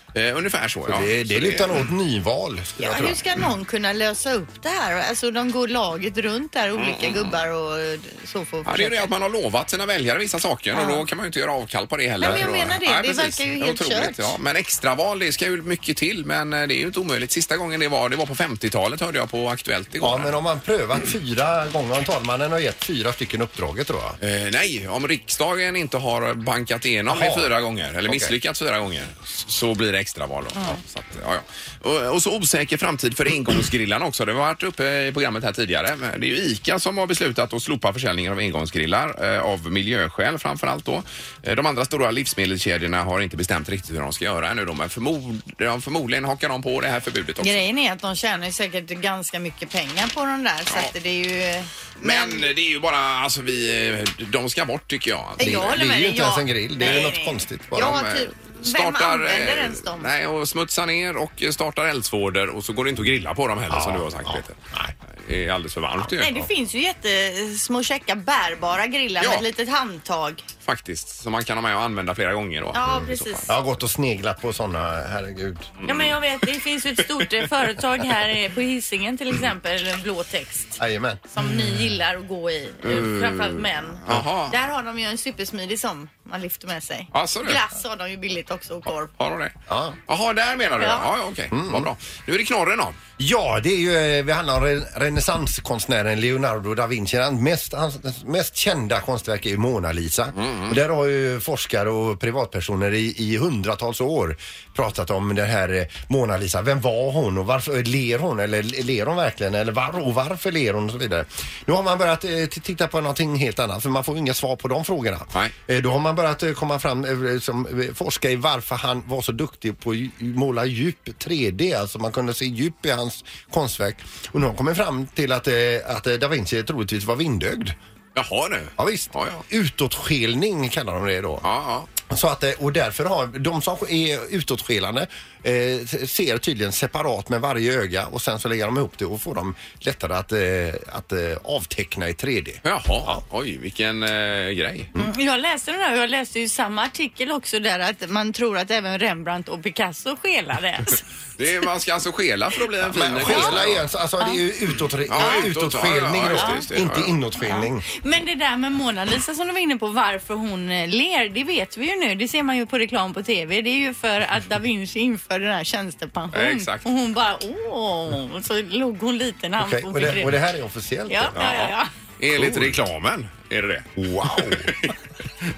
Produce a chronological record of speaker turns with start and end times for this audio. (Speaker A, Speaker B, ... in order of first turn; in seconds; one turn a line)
Speaker A: 0.1-1.8
Speaker B: 0.9-3.2
Speaker C: 2.8-9.1
Speaker A: 6.8-7.3
Speaker A: 8.7-20.3
Speaker C: 10.7-11.0
Speaker C: 12.2-14.4
Speaker B: 12.2-12.7
Speaker B: 20.0-24.2
Speaker A: 24.2-47.6
Speaker B: 27.1-27.5
Speaker B: 28.1-28.3
Speaker C: 47.4-52.5
Speaker A: 52.0-55.8
Speaker C: 55.4-60.1
Speaker B: 55.4-58.0
Speaker A: 57.7-64.6
Speaker B: 63.7-64.9
Speaker A: 65.2-66.3
Speaker C: 66.1-70.4
Speaker A: 69.2-69.4
Speaker A: 70.6-73.5
Speaker C: 72.7-73.5
Speaker B: 73.5-75.7
Speaker A: 75.8-76.2
Speaker C: 75.8-89.1
Speaker B: 80.8-81.2
Speaker A: 82.8-84.5
Speaker A: 87.1-87.6
Speaker A: 89.1-89.5
Speaker B: 89.7-90.0
Speaker A: 90.1-93.0
Speaker C: 90.8-91.1
Speaker B: 91.5-91.9
Speaker B: 93.2-127.7
Speaker A: 100.4-100.8
Speaker A: 128.1-129.4
Speaker B: 128.8-131.4
Speaker A: 131.4-131.9
Speaker B: 132.1-143.2
Speaker A: 142.6-144.9
Speaker C: 145.0-151.0
Speaker A: 151.4-153.8
Speaker B: 152.9-157.8
Speaker C: 153.3-153.5
Speaker A: 155.1-157.2
Speaker C: 155.2-155.5
Speaker C: 156.3-156.6
Speaker C: 157.4-170.4
Speaker A: 166.3-166.8
Speaker B: 169.6-171.4
Speaker C: 171.1-171.9
Speaker A: 171.3-174.9
Speaker B: 172.4-172.8
Speaker B: 174.0-174.7